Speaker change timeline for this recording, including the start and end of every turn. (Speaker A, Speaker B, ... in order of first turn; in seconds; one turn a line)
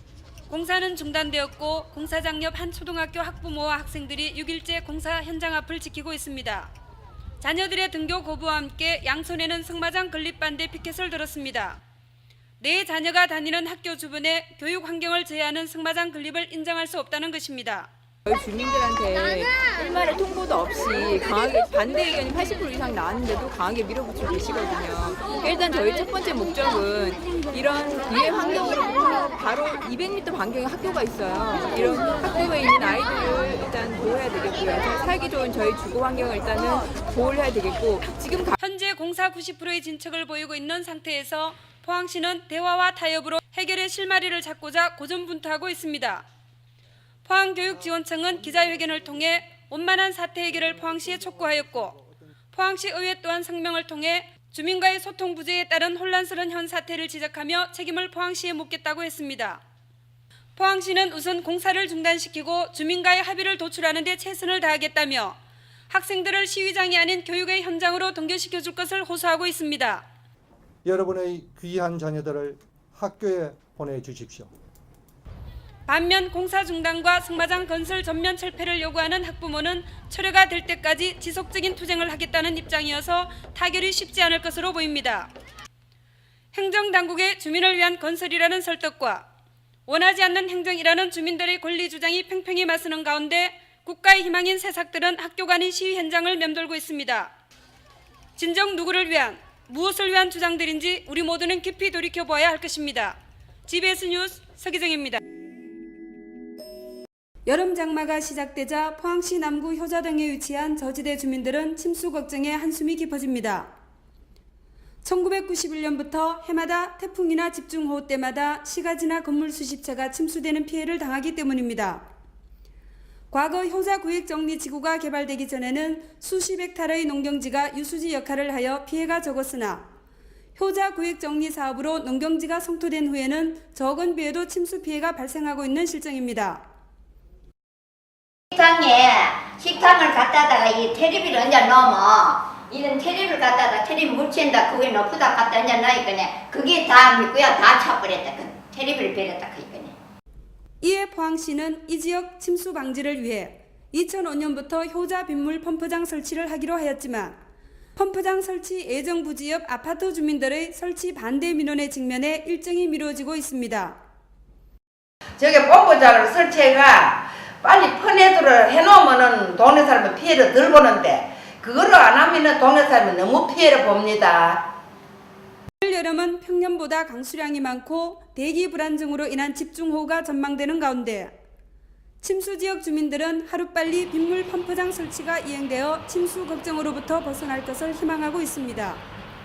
Speaker A: 0.5-6.7
Speaker A: 7.4-11.8
Speaker A: 12.6-17.9
Speaker B: 18.2-38.5
Speaker A: 38.6-46.2
Speaker A: 47.2-52.0
Speaker A: 52.5-59.6
Speaker A: 60.5-65.4
Speaker A: 65.9-70.0
Speaker C: 70.8-74.5
Speaker A: 75.8-85.3
Speaker A: 86.5-89.2
Speaker A: 89.9-97.3
Speaker A: 98.3-105.2
Speaker A: 107.5-113.7
Speaker A: 115.0-122.0
Speaker A: 123.3-129.8
Speaker A: 130.6-136.6
Speaker D: 138.5-149.9
Speaker A: 150.8-157.4
Speaker A: 157.9-164.0
Speaker E: 165.4-174.6
Speaker A: 175.8-181.3
Speaker A: 182.2-189.0